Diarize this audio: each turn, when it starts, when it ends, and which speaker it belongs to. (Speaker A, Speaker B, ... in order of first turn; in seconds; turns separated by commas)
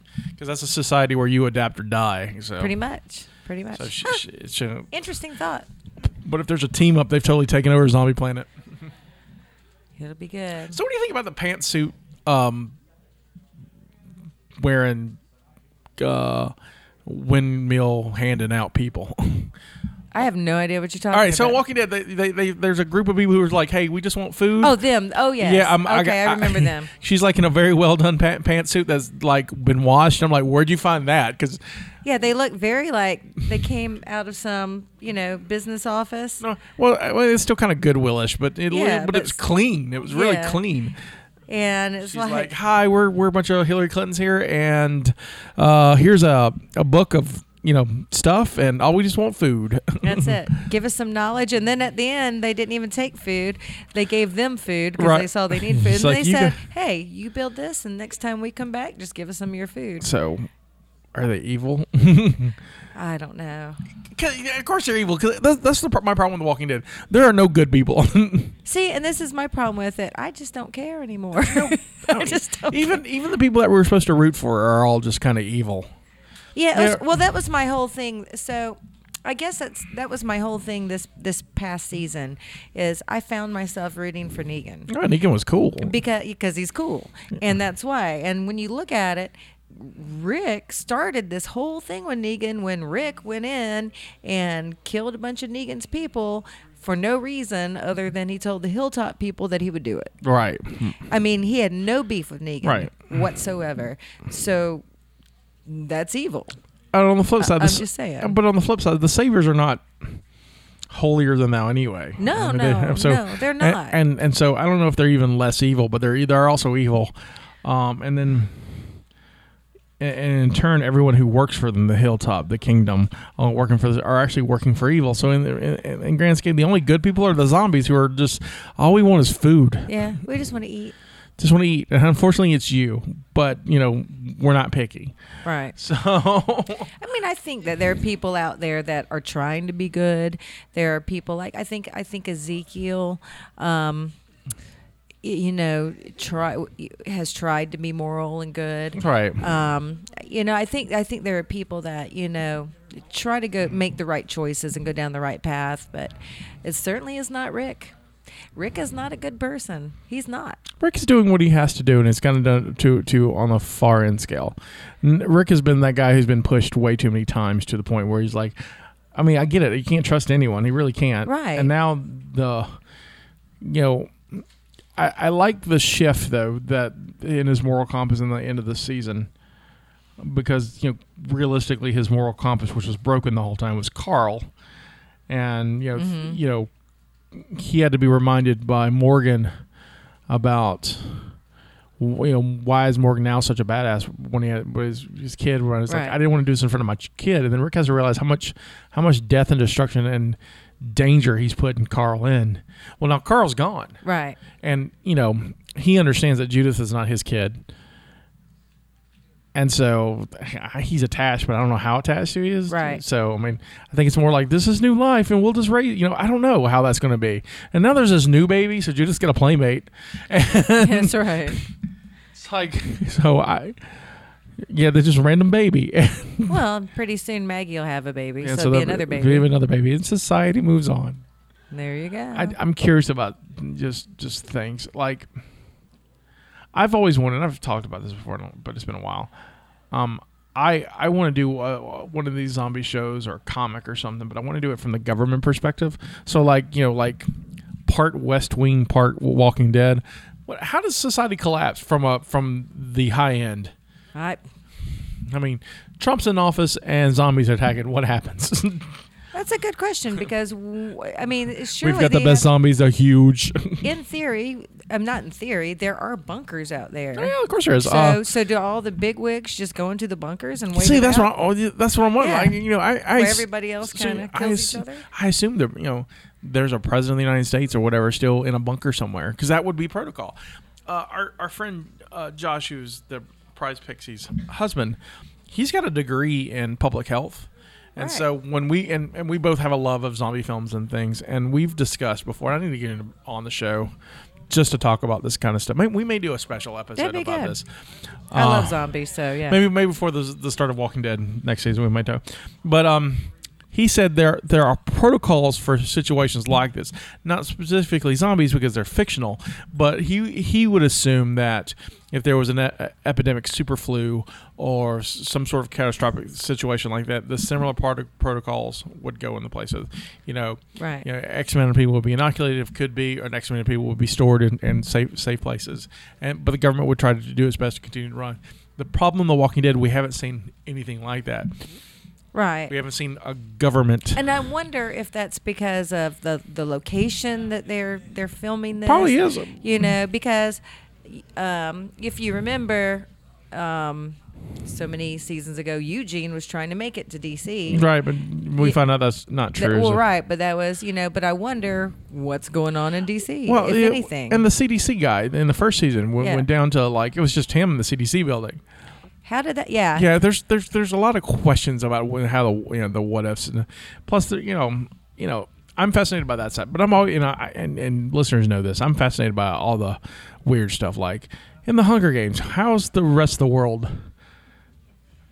Speaker A: 0.4-2.7, Speaker B: 2.6-4.2, Speaker A: 3.8-4.9, Speaker B: 4.9-5.7, Speaker A: 6.0-8.5, Speaker B: 10.0-10.8, Speaker A: 10.7-12.8, Speaker A: 14.6-15.2, Speaker A: 16.0-19.5, Speaker B: 20.1-21.6, Speaker A: 21.1-24.8, Speaker B: 24.6-26.9, Speaker A: 25.4-31.6, Speaker B: 32.0-36.4, Speaker A: 36.4-41.0, Speaker B: 38.7-39.4, Speaker B: 40.1-40.6, Speaker B: 41.5-42.5, Speaker A: 42.0-50.4, Speaker B: 50.0-60.1, Speaker A: 55.0-56.6, Speaker A: 60.0-60.5, Speaker A: 61.1-62.6, Speaker B: 62.9-63.8, Speaker A: 64.1-68.5, Speaker B: 68.6-73.0, Speaker A: 71.4-75.9, Speaker B: 76.5-84.9, Speaker A: 76.7-77.0, Speaker A: 84.9-85.9, Speaker B: 85.8-100.1, Speaker A: 100.2-101.0, Speaker B: 101.0-104.8, Speaker A: 102.6-102.9, Speaker B: 105.7-106.6, Speaker A: 106.9-110.2, Speaker B: 107.4-108.3, Speaker A: 110.9-117.1, Speaker B: 112.2-114.0, Speaker A: 117.6-118.8, Speaker A: 120.0-129.9, Speaker B: 129.9-130.9, Speaker A: 131.4-135.1, Speaker B: 135.4-135.8, Speaker A: 135.8-136.9, Speaker B: 137.0-144.1, Speaker B: 145.2-157.9, Speaker A: 148.9-149.4, Speaker B: 158.6-160.6, Speaker A: 160.8-168.6, Speaker A: 169.1-172.8, Speaker B: 171.2-171.7, Speaker A: 173.6-174.4, Speaker A: 174.9-179.3, Speaker A: 180.2-184.5, Speaker A: 185.3-186.7, Speaker B: 185.9-186.4, Speaker A: 187.3-189.5, Speaker A: 190.3-191.3, Speaker A: 192.0-204.0, Speaker B: 195.9-196.2, Speaker B: 204.0-204.4, Speaker A: 204.6-207.6, Speaker A: 209.5-221.7, Speaker B: 212.7-213.0, Speaker B: 220.8-221.6, Speaker A: 222.3-223.8, Speaker A: 224.6-226.6, Speaker B: 226.5-229.5, Speaker A: 228.4-231.2, Speaker B: 231.7-232.5, Speaker A: 232.3-235.3, Speaker A: 236.7-239.3, Speaker A: 239.9-247.3, Speaker A: 247.8-253.7, Speaker B: 254.1-254.4, Speaker A: 255.2-258.9, Speaker B: 259.3-262.5, Speaker A: 261.8-263.9, Speaker B: 263.8-271.3, Speaker A: 267.1-268.2, Speaker A: 270.7-293.9, Speaker B: 272.2-272.6, Speaker B: 273.1-275.1, Speaker B: 288.0-288.2, Speaker A: 294.5-297.7, Speaker B: 296.9-297.6, Speaker A: 298.3-298.8, Speaker B: 298.3-299.6, Speaker A: 299.5-331.5, Speaker B: 320.8-321.1, Speaker B: 332.3-332.7, Speaker A: 332.7-334.2, Speaker B: 334.1-347.9, Speaker A: 338.8-339.6, Speaker A: 347.7-350.0, Speaker B: 349.6-354.4, Speaker A: 353.4-358.6, Speaker B: 356.2-356.5, Speaker B: 359.2-360.1, Speaker A: 359.9-374.1